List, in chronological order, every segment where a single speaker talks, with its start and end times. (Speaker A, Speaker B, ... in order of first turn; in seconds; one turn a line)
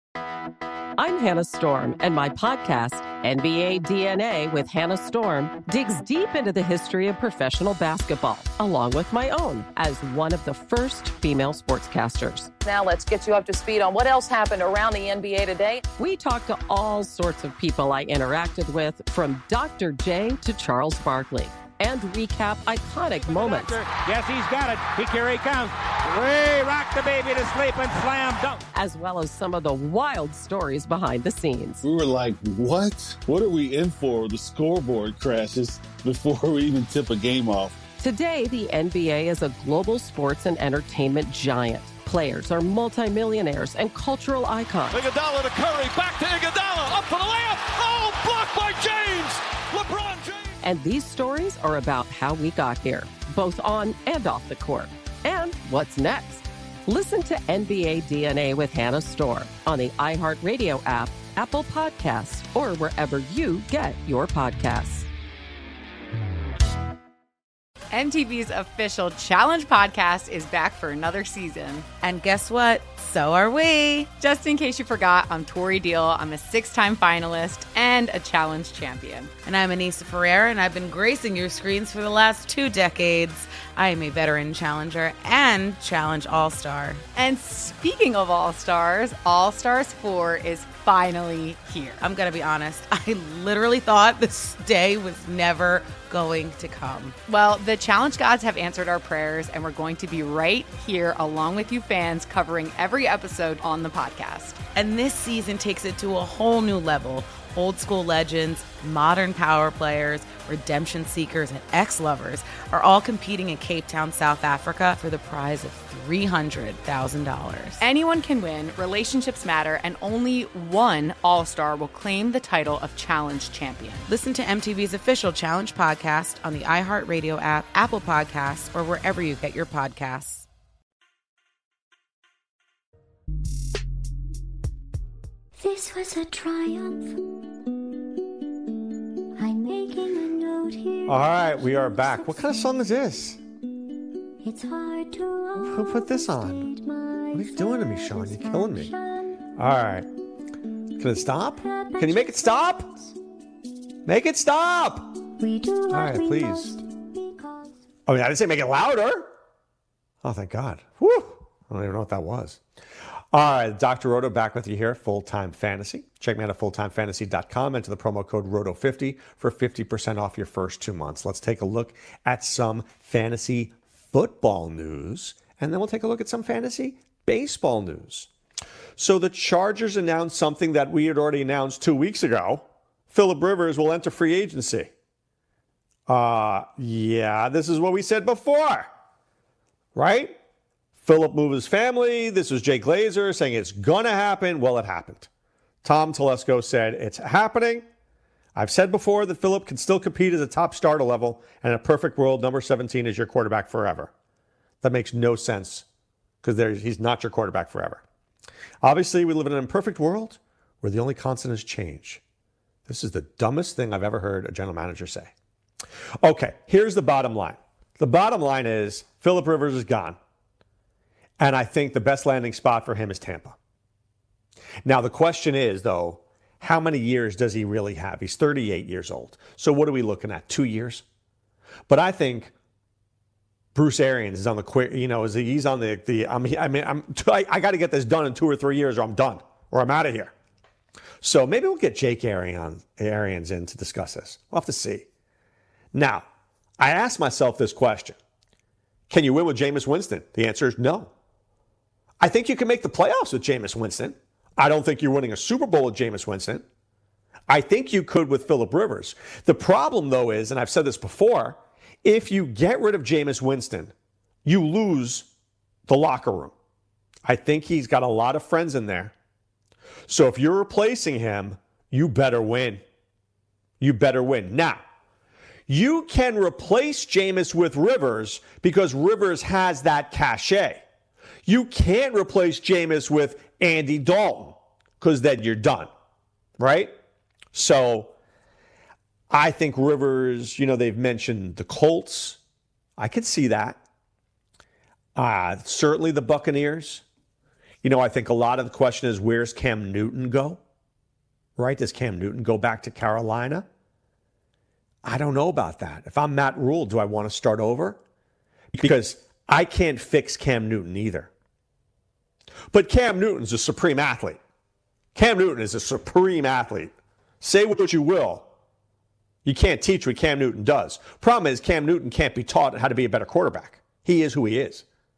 Speaker A: 1.0-12.5
Speaker B: 12.7-15.8
Speaker A: 16.0-23.8
Speaker C: 23.4-28.6
Speaker A: 28.7-31.8
Speaker D: 31.8-37.8
Speaker A: 38.0-45.0
Speaker E: 44.9-50.6
Speaker A: 50.6-65.1
Speaker F: 67.9-71.9
Speaker G: 72.0-74.1
Speaker F: 74.2-79.3
Speaker G: 79.5-87.0
Speaker F: 87.2-92.0
Speaker G: 92.0-97.2
Speaker F: 97.3-104.6
Speaker G: 104.8-117.8
Speaker F: 117.8-124.1
Speaker G: 124.1-130.4
Speaker H: 135.6-137.3
Speaker H: 139.4-142.8
Speaker I: 141.1-143.4
Speaker H: 144.4-149.4
Speaker I: 145.6-146.7
Speaker I: 147.3-148.9
Speaker I: 149.6-150.1
Speaker I: 151.0-152.9
Speaker H: 151.6-153.1
Speaker I: 154.1-155.2
Speaker H: 155.3-157.7
Speaker I: 155.9-156.8
Speaker I: 158.1-159.3
Speaker I: 160.2-162.6
Speaker I: 163.3-178.3
Speaker I: 179.0-184.9
Speaker I: 186.1-188.9
Speaker I: 189.9-190.4
Speaker I: 191.0-195.3
Speaker I: 195.8-197.8
Speaker I: 198.6-204.1
Speaker I: 204.8-205.9
Speaker I: 206.4-208.0
Speaker I: 208.8-212.2
Speaker I: 212.9-215.3
Speaker I: 216.2-220.2
Speaker I: 221.4-223.6
Speaker I: 224.8-231.0
Speaker I: 231.9-232.5
Speaker I: 233.8-240.3
Speaker I: 241.2-245.1
Speaker I: 245.9-246.3
Speaker I: 246.8-248.2
Speaker I: 249.1-251.1
Speaker I: 252.2-256.6
Speaker I: 257.5-263.9
Speaker I: 264.4-265.3
Speaker I: 265.9-266.5
Speaker I: 267.2-269.1
Speaker I: 270.1-272.8
Speaker I: 273.8-274.8
Speaker I: 275.7-280.8
Speaker I: 281.5-285.9
Speaker I: 286.6-286.9
Speaker I: 287.5-288.1
Speaker I: 289.3-292.4
Speaker I: 293.0-293.8
Speaker I: 295.2-297.0
Speaker I: 297.8-300.6
Speaker I: 301.6-303.7
Speaker I: 305.0-308.0
Speaker I: 308.7-311.3
Speaker I: 312.7-314.4
Speaker I: 315.1-318.5
Speaker I: 319.4-324.9